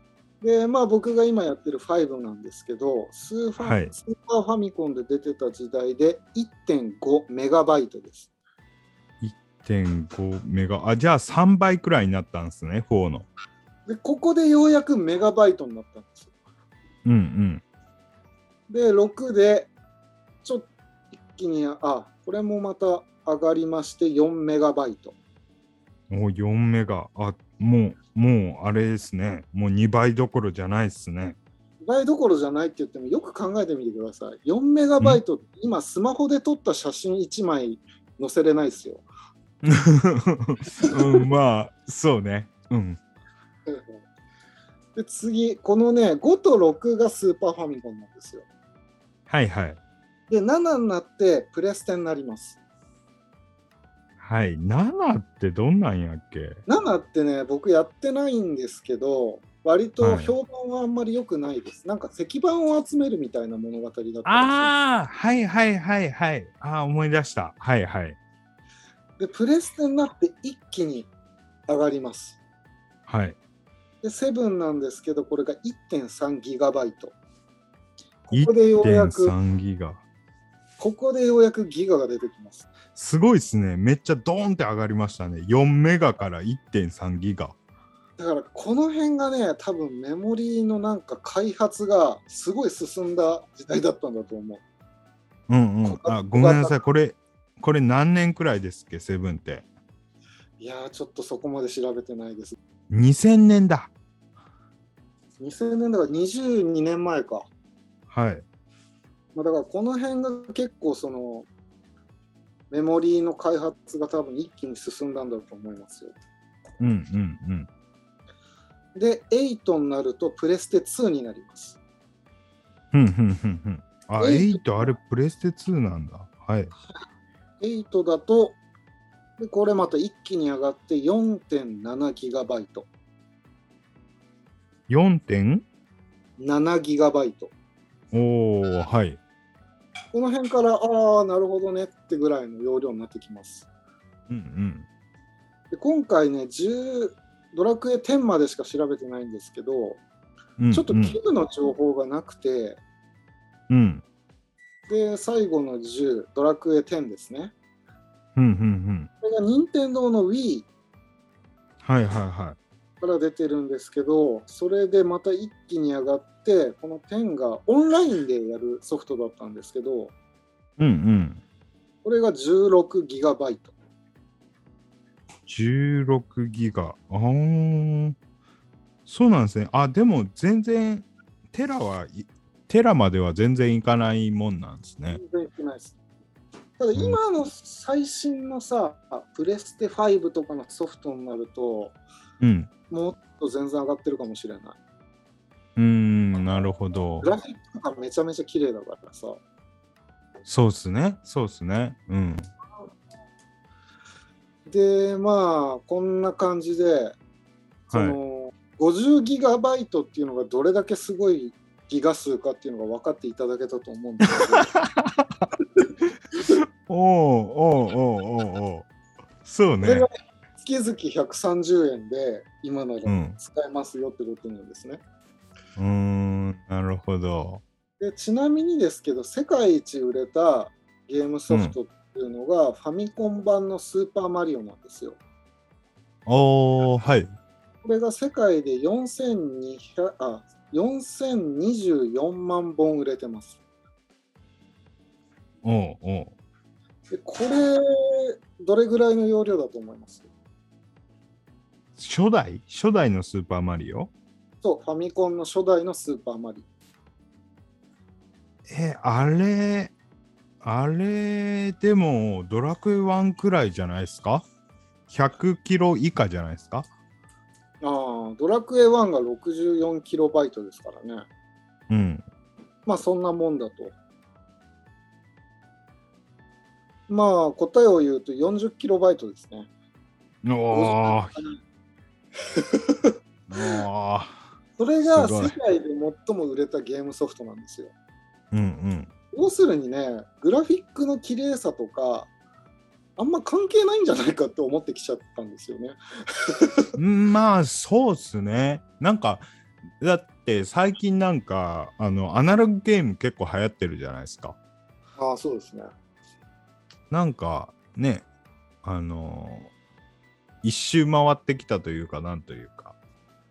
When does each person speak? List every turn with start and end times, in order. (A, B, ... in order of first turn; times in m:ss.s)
0:00.4-0:08.3 A
0:03.6-0:03.9 B
0:09.2-0:13.3 B
0:13.9-0:16.3 A
0:17.0-0:17.6 B
0:18.7-0:19.7 A
0:20.4-0:25.2 A
0:26.1-0:31.4 B
0:31.8-0:39.0 A
0:39.6-0:43.0 B
0:43.7-0:44.0 A
0:45.0-0:48.5 A
0:49.3-0:49.8 B
0:50.3-0:52.6 A
0:54.2-0:56.6 B
0:56.7-1:04.7 A
1:00.0-1:00.3 B
1:04.2-1:08.2 B
1:09.2-1:11.1 A
1:11.7-1:12.4 A
1:13.1-1:13.4 B
1:14.0-1:17.2 A
1:18.3-1:19.4 A
1:18.3-1:20.0 B
1:20.8-1:22.7 A
1:23.0-1:27.6 B
1:28.2-1:34.6 A
1:35.5-1:39.7 B
1:35.8-1:36.8 A
1:40.6-1:42.6 A
1:42.9-1:43.9 B
1:45.4-1:47.5 A
1:48.1-1:48.4 B
1:49.4-1:51.5 A
1:52.7-1:56.2 A
1:56.8-1:57.7 B
1:59.0-2:01.8 A
2:02.9-2:06.7 B
2:04.2-2:04.9 A
2:07.6-2:08.6 A
2:09.4-2:12.9 A
2:14.9-2:15.6 B
2:16.4-2:17.5 A
2:18.1-2:19.2 B
2:20.1-2:23.7 A
2:24.3-2:24.9 B
2:25.7-2:30.0 A
2:30.6-2:31.2 B
2:30.7-2:32.8 A
2:33.7-2:34.0 B
2:34.9-2:37.5 A
2:38.4-2:39.1 B
2:39.2-2:40.7 A
2:41.8-2:42.6 B
2:43.0-2:50.1 A
2:50.8-2:51.4 B
2:52.0-2:53.7 A
2:55.5-2:58.2 B
2:59.1-3:05.2 B
3:05.1-3:06.0 A
3:06.8-3:12.0 A
3:12.4-3:12.7 B
3:12.9-3:14.8 A
3:15.8-3:17.3 B
3:17.2-3:19.4 A
3:20.5-3:22.5 B
3:24.7-3:27.2 A
3:27.9-3:34.7 A
3:27.9-3:28.2 B
3:34.6-3:35.4 B
3:36.9-3:38.9 B
3:39.4-3:40.1 B
3:39.8-3:45.0 A
3:43.1-3:43.4 B
3:45.8-3:47.6 B
3:48.0-3:55.2 A
3:51.5-3:51.8 B
3:56.3-3:57.3 B
3:57.8-4:03.6 A
4:05.6-4:06.3 B
4:07.1-4:10.3 A
4:12.0-4:14.1 B
4:14.6-4:16.7 A
4:18.7-4:19.9 B
4:20.6-4:24.5 B
4:25.1-4:26.9 B
4:27.8-4:31.3 A
4:31.9-4:32.2 B
4:32.9-4:33.9 A
4:37.1-4:39.7 A
4:40.4-4:41.4 B
4:40.7-4:41.6 A
4:42.6-4:43.1 A
4:43.5-4:44.4 B
4:44.8-4:47.9 A
4:45.0-4:45.6 B
4:48.5-4:49.1 B
4:49.3-4:52.3 A
4:53.2-4:56.8 A
4:57.0-4:59.5 B
5:00.0-5:04.6 B
5:05.2-5:05.9 A
5:07.1-5:08.3 B
5:08.8-5:09.7 B
5:10.6-5:13.0 B